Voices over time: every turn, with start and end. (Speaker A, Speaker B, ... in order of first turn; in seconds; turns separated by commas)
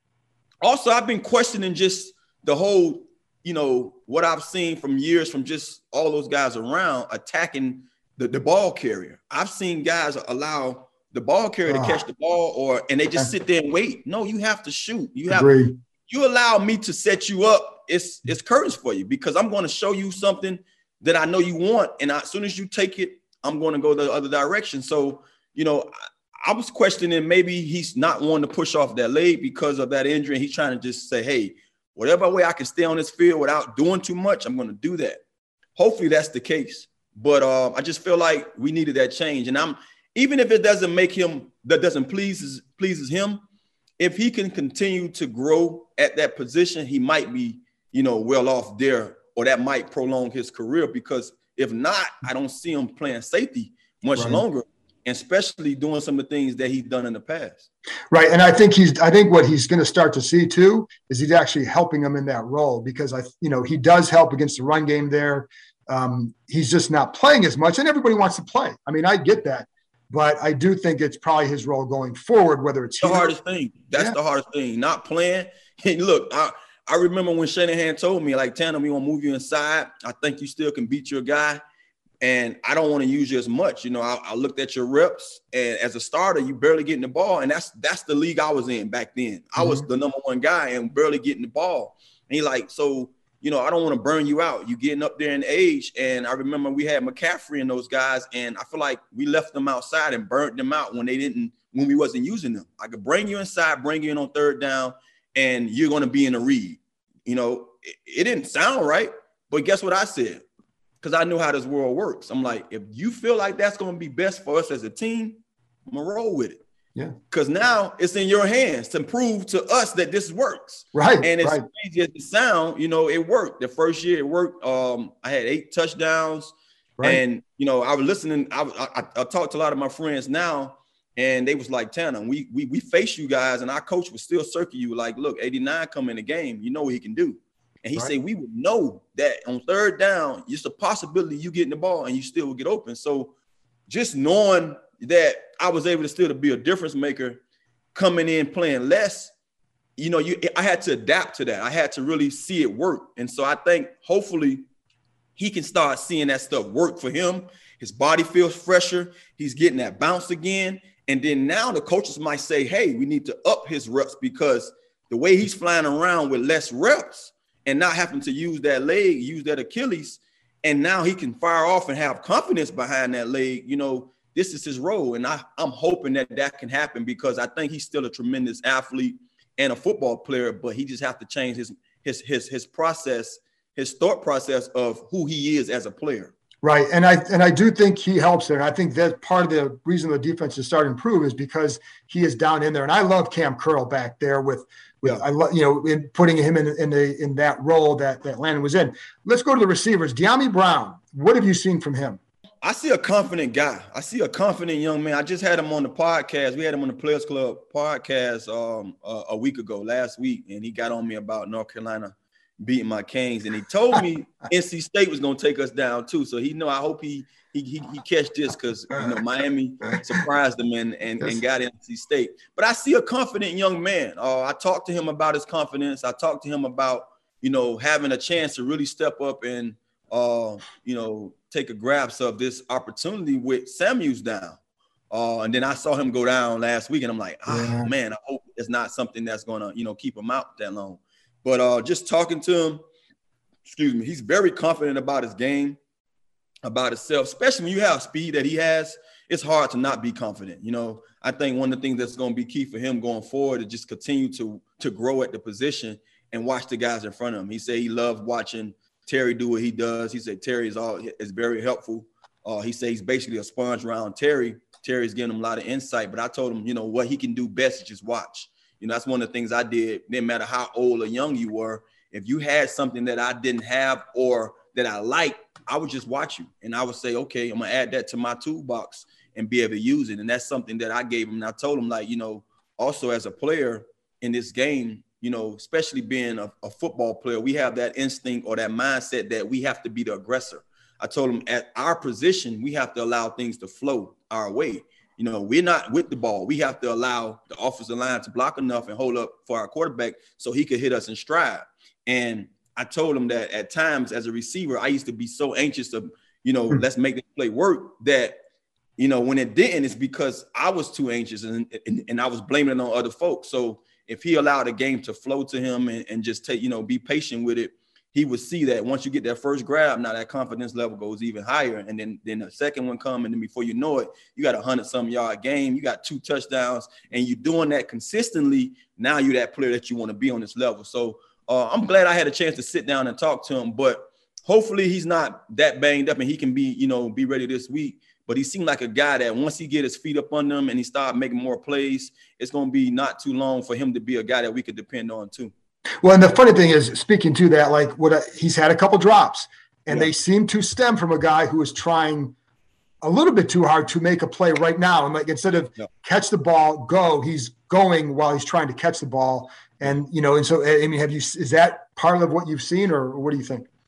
Speaker A: 0.6-15.5, Speaker B: 11.7-12.0, Speaker B: 15.3-15.8, Speaker A: 16.1-35.2, Speaker A: 35.8-43.4, Speaker A: 44.0-57.7, Speaker B: 54.1-54.4, Speaker B: 58.1-73.3, Speaker A: 73.0-81.6, Speaker A: 82.2-110.4, Speaker B: 89.6-89.8, Speaker A: 111.0-116.6, Speaker A: 117.3-143.3, Speaker B: 120.9-121.7, Speaker A: 143.9-147.4, Speaker A: 147.9-149.3, Speaker A: 150.0-154.6, Speaker A: 155.4-186.3, Speaker B: 186.6-202.2, Speaker A: 202.6-234.6, Speaker B: 218.9-219.2, Speaker B: 219.8-220.2, Speaker A: 235.1-242.8, Speaker B: 237.5-237.9, Speaker A: 243.6-245.8, Speaker A: 246.6-308.4, Speaker A: 309.0-345.5, Speaker B: 346.0-352.3, Speaker B: 353.0-363.7